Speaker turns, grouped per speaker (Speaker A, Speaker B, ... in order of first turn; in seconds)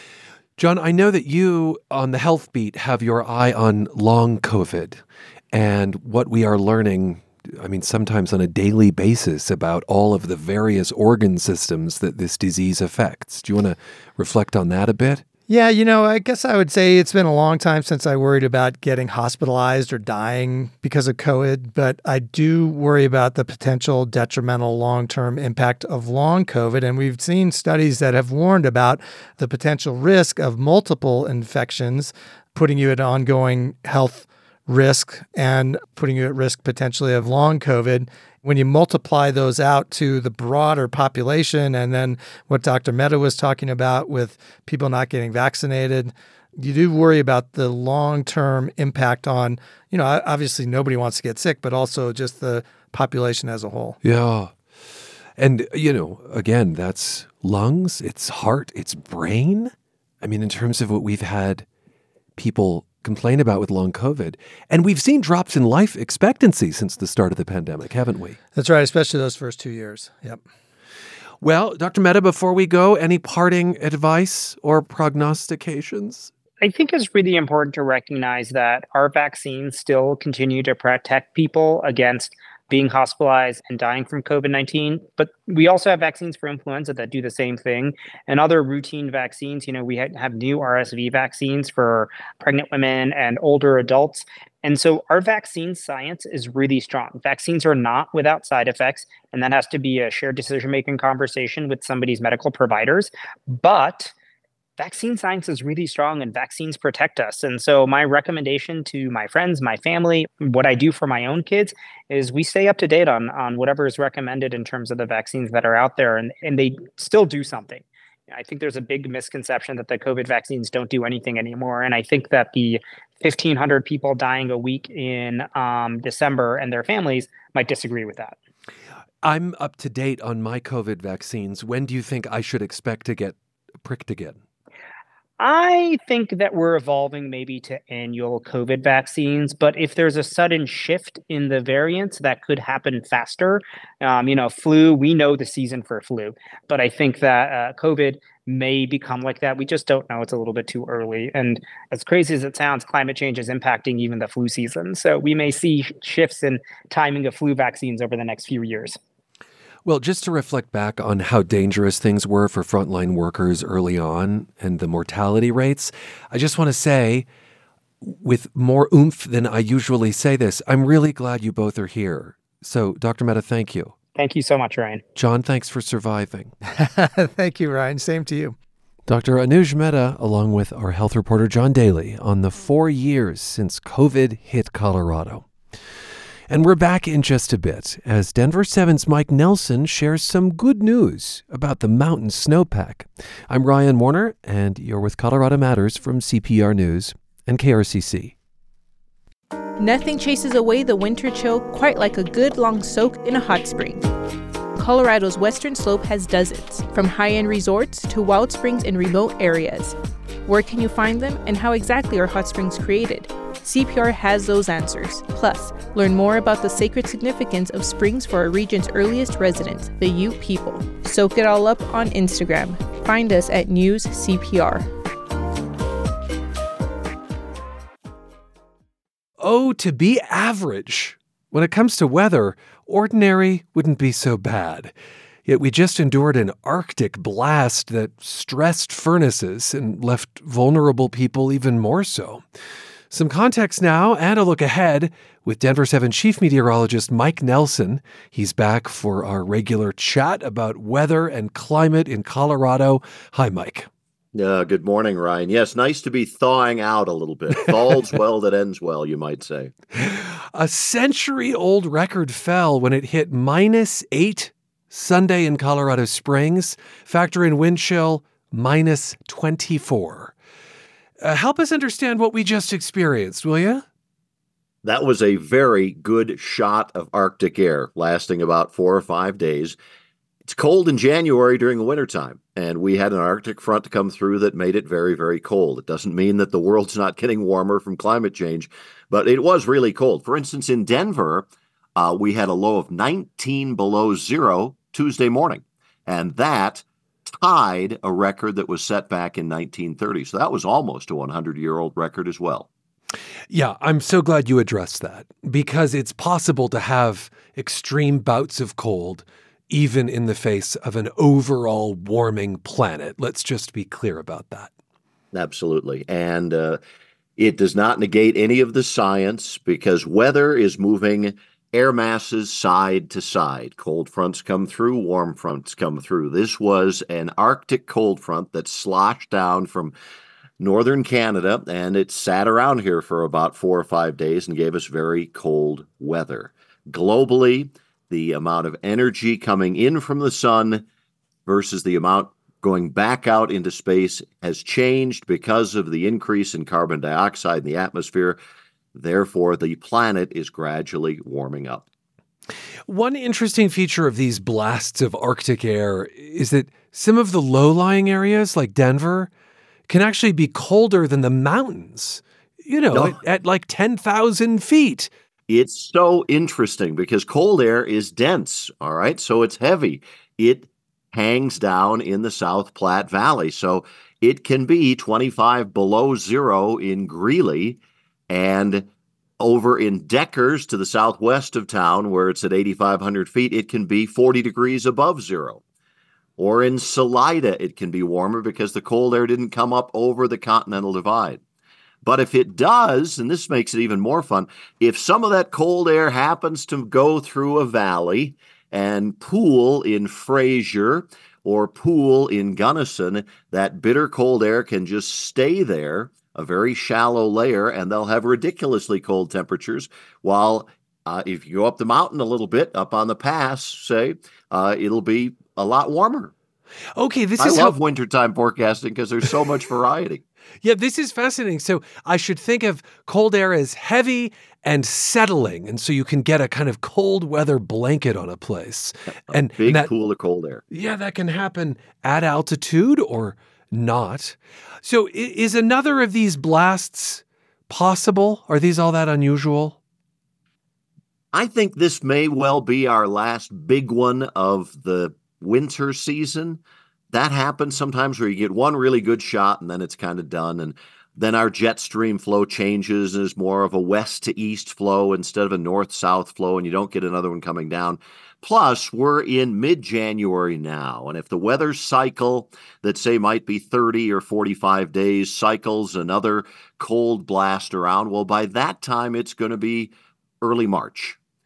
Speaker A: 0.6-15.2, 54.0-54.6, 55.4-61.6, 62.4-68.4, 71.4-76.3, 129.2-134.4, 159.8-167.2, 168.0-173.9, 175.1-176.5, 179.1-185.5, 186.5-198.3, 229.4-234.9, 235.4-242.4, 243.1-253.9, 259.9-270.3, 271.2-273.8, 303.5-314.7, 352.9-359.3, 359.9-365.1, 416.9-417.8, 420.6-429.9, 430.7-439.8
Speaker B: 15.5-54.0, 68.5-70.4, 176.7-178.6
Speaker C: 76.6-104.1, 104.8-128.4, 135.4-159.0, 174.2-175.0
Speaker D: 199.8-204.1, 204.8-224.9
Speaker E: 254.3-259.7, 274.8-279.8, 280.4-302.7, 315.3-316.8, 317.4-329.9, 330.6-340.8, 341.5-348.4, 348.9-351.9, 362.9-363.2, 365.5-378.9, 379.4-385.6, 386.4-391.4, 392.0-416.3, 417.4-420.2, 429.3-430.6, 441.3-446.6, 447.1-471.2